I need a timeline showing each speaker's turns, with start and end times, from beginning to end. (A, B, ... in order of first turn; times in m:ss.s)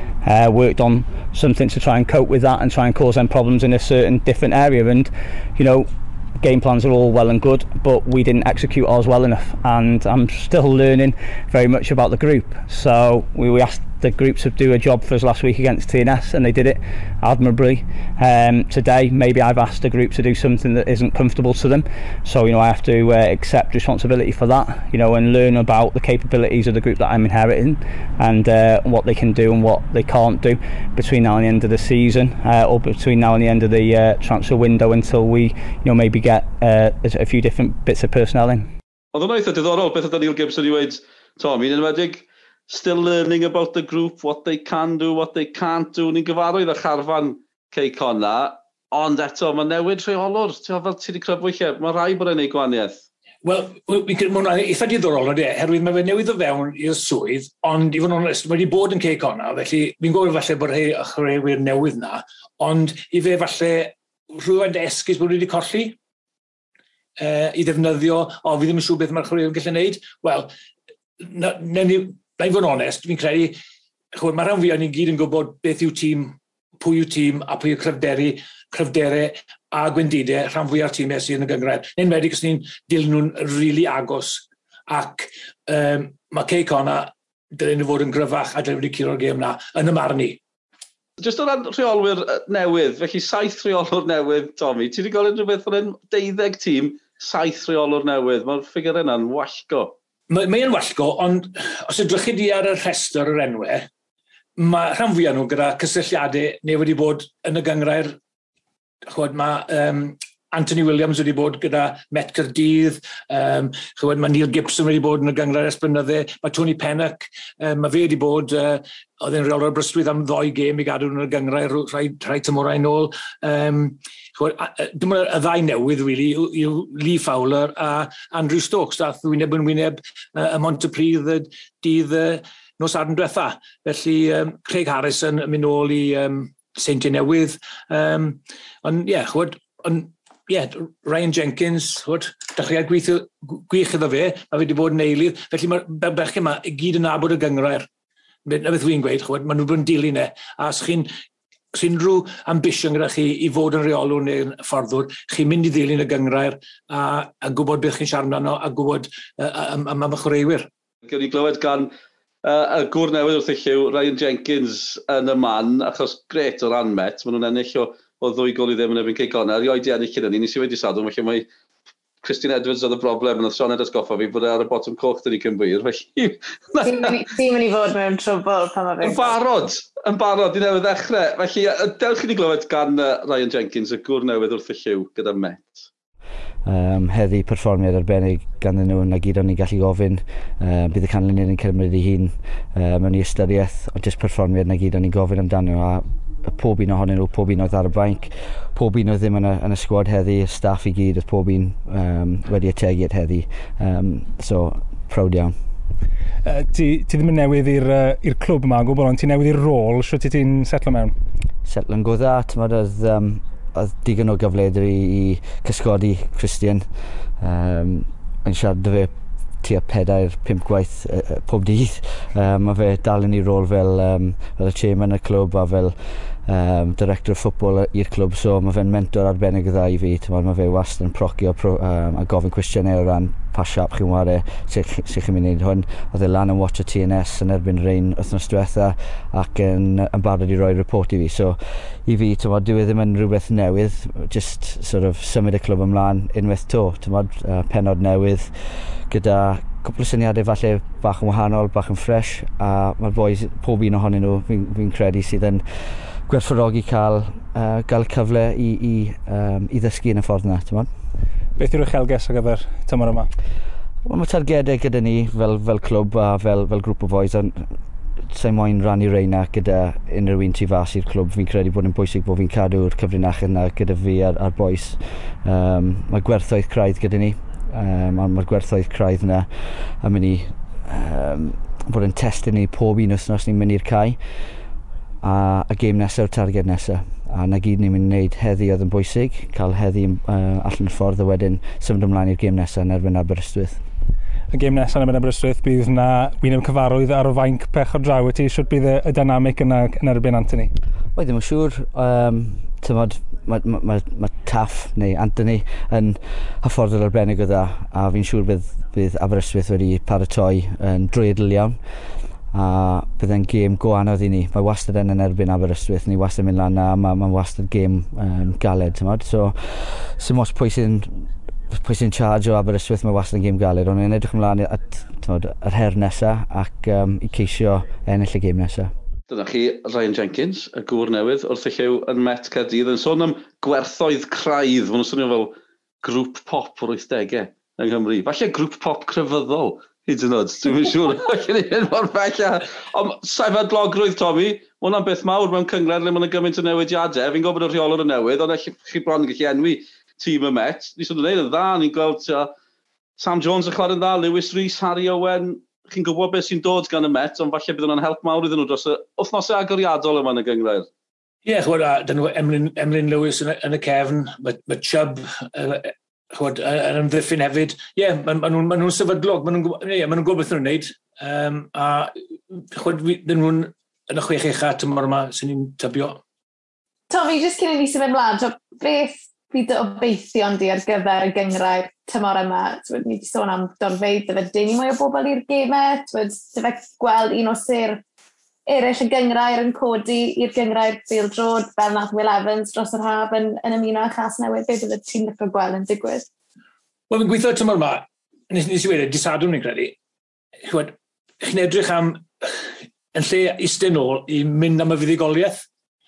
0:00.2-0:38.7 A
0:39.1-0:53.0 B
0:53.4-1:06.0 C
1:07.2-1:10.5 C
1:11.2-1:13.6 C
1:14.2-1:30.4 C
1:31.2-1:40.0 B
1:40.3-1:43.9 C
1:44.6-1:48.2 C
1:49.1-2:27.9 C
2:28.5-2:31.1 C
2:31.7-2:40.7 C
2:41.1-2:41.9 B
2:42.4-2:51.5 B
2:52.2-2:57.2 B
2:56.8-2:59.4 D
2:59.0-3:05.9 B
3:06.6-3:25.6 E
3:26.4-3:31.2 F
3:31.6-4:20.9 E
4:21.6-4:23.3 F
4:24.0-4:27.8 E
4:28.3-4:44.3 E
4:45.2-4:53.8 E
4:54.5-5:00.7 F
5:01.1-5:11.9 E
5:12.5-5:28.9 E
5:29.3-5:52.5 B
5:53.2-6:00.9 B
6:01.4-6:16.2 C
6:17.1-6:28.0 D
6:28.7-6:36.3 D
6:37.1-6:40.0 C
6:40.7-6:42.5 C
6:43.1-6:45.6 C